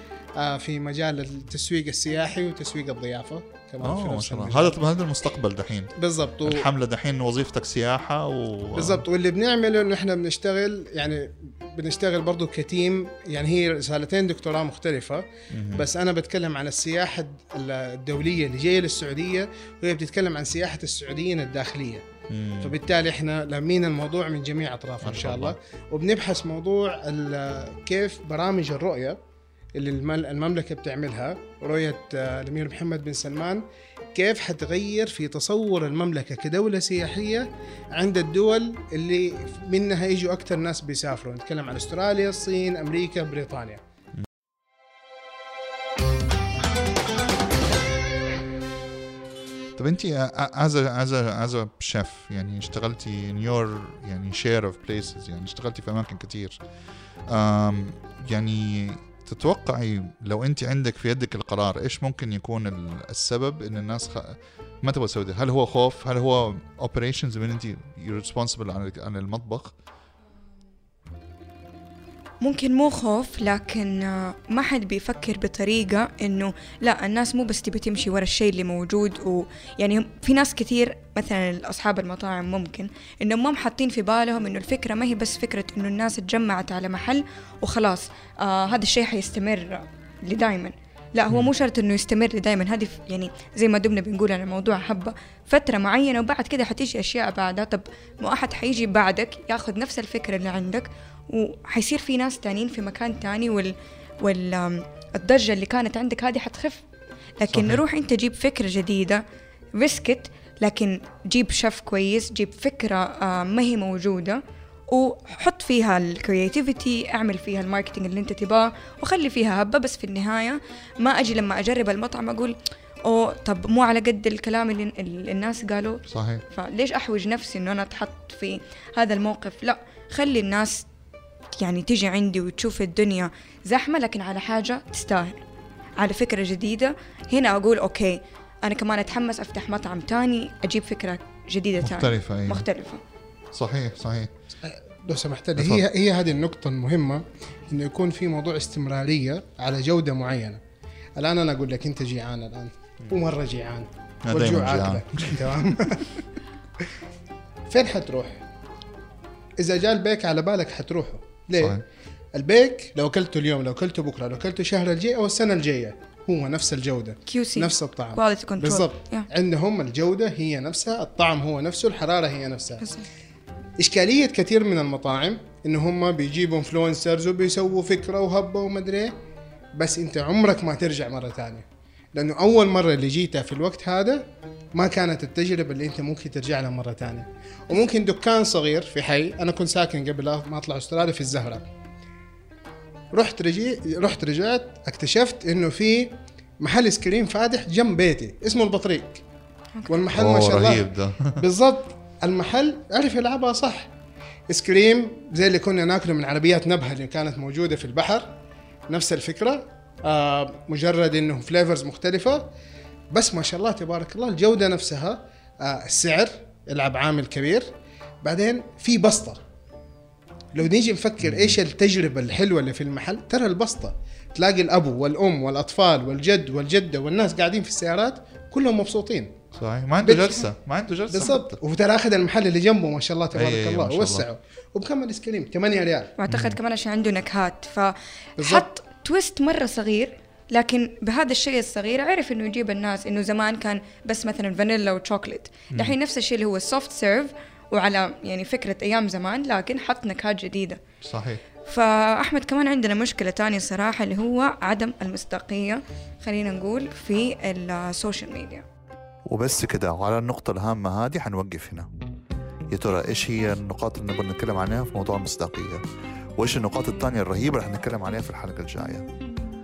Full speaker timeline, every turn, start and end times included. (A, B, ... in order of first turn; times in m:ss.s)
0:00.4-0:04.8 A
0:03.8-0:05.9 B
0:06.0-0:06.7 A
0:06.5-0:09.0 B
0:08.8-0:22.0 A
0:15.5-0:15.8 B
0:22.3-0:22.8 B
0:22.6-0:29.2 A
0:25.0-0:25.6 B
0:29.8-0:43.8 A
0:49.8-0:56.6 B
0:57.3-1:09.7 B
1:12.4-1:46.8 C
1:47.4-1:49.2 C
1:47.5-1:47.8 B
1:49.8-2:10.8 C
2:06.1-2:06.4 B
2:11.6-2:15.4 C
2:16.0-2:23.0 C
2:21.8-2:22.6 B
2:23.5-2:24.3 B
2:24.6-2:30.6 A
2:25.6-2:25.8 B
2:31.2-2:36.2 A
2:34.2-2:35.5 B
2:37.7-2:38.4 A
2:39.6-2:41.8 A
2:42.3-2:52.8 A
2:47.3-2:49.3 C
2:52.8-2:53.1 C
2:53.8-2:59.1 A
2:59.8-3:11.7 A
3:13.1-3:19.2 A
3:19.8-3:20.1 C
3:19.9-3:23.9 A
3:20.1-3:21.4 B
3:24.5-3:28.3 A
3:28.9-3:32.5 A
3:33.1-3:37.7 A
3:38.2-3:39.4 A
3:40.5-3:49.3 A
3:41.2-3:41.6 B
3:49.5-3:51.6 B
3:50.0-3:50.5 A
3:51.1-3:56.1 A
3:53.3-3:54.3 B
3:56.2-4:10.8 C
3:56.3-3:56.6 B
3:58.4-3:58.7 A
4:11.0-4:11.4 B
4:11.6-4:18.6 C
4:19.3-4:21.9 B
4:22.7-4:25.8 B
4:26.4-4:29.1 B